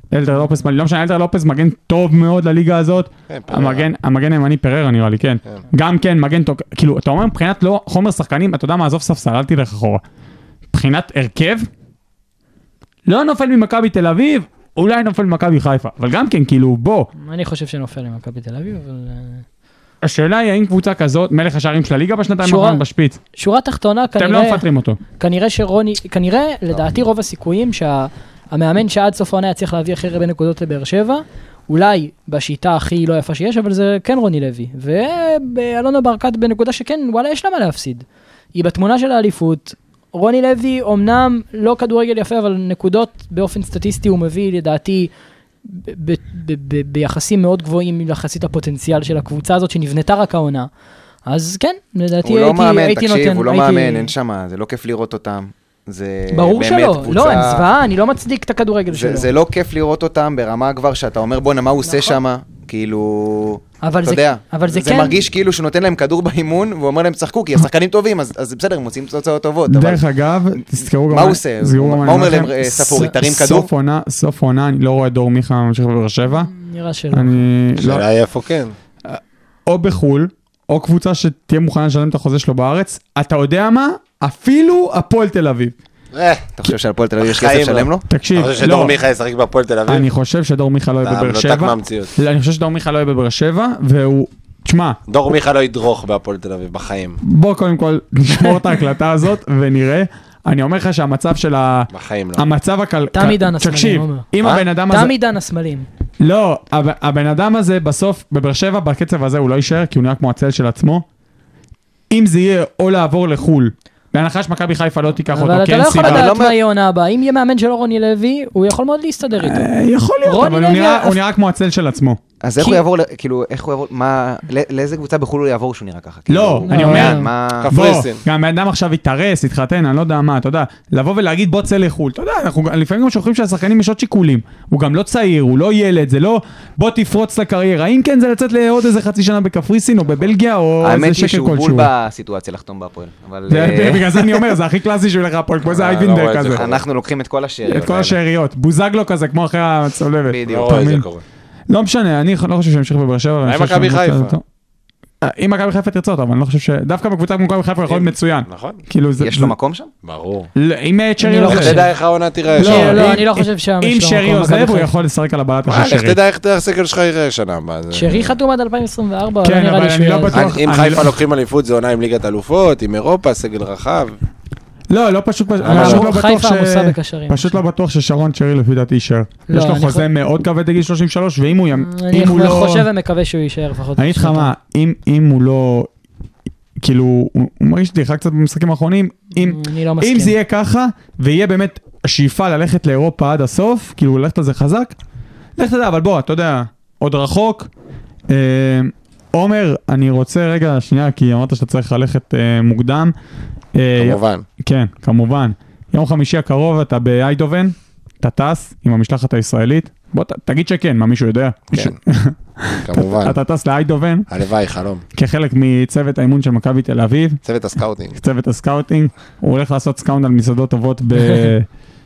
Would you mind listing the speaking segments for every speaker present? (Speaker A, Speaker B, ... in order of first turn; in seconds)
Speaker A: 0.1-10.0, 10.7-11.7, 13.1-17.1, 20.0-23.2, 24.2-25.0, 69.7-76.5, 77.1-78.0, 79.1-85.8, 88.1-89.0, 89.9-95.0, 97.2-105.1, 106.2-111.0, 112.1-116.3, 119.4-122.2, 126.3-141.9, 143.5-146.7, 147.7-151.1, 151.7-154.4, 155.2-159.5, 160.6-161.8, 162.6-166.2, 169.4-171.1, 174.9-182.9, 184.0-185.9, 186.8-194.9, 195.6-197.7, 198.3-203.1, 203.8-214.3, 215.1-217.4, 218.1-221.7
Speaker B: 3.3-3.9, 77.8-78.7, 86.1-86.5, 87.2-90.1, 91.0-92.2, 95.1-97.2, 101.9-102.5, 127.6-128.2, 145.7-146.8, 150.5-151.2, 153.4-154.4, 157.9-158.8, 160.0-160.5, 161.4-163.2, 165.7-168.4, 170.3-174.2, 175.6-176.1, 204.0-204.4, 211.7-212.0, 212.8-213.4, 214.3-215.0, 217.4-218.2
Speaker C: 17.2-19.4, 22.4-22.8, 23.4-24.6, 25.2-45.1, 45.6-50.7, 51.3-54.1, 56.3-59.3, 61.9-62.2, 63.8-65.2, 76.3-77.4, 103.1-104.3, 104.9-105.9, 115.3-119.7, 120.2-121.2, 122.6-122.8, 126.7-127.3, 161.2-161.9, 162.5-164.9, 167.9-170.5, 175.7-177.6, 179.5-180.1, 181.7-184.5, 189.4-190.3
Speaker D: 52.2-57.6, 58.9-70.0, 71.1-73.7, 86.6-88.1, 116.0-116.6, 122.4-127.7, 140.8-144.5, 146.5-148.2, 150.3-150.9, 159.2-159.9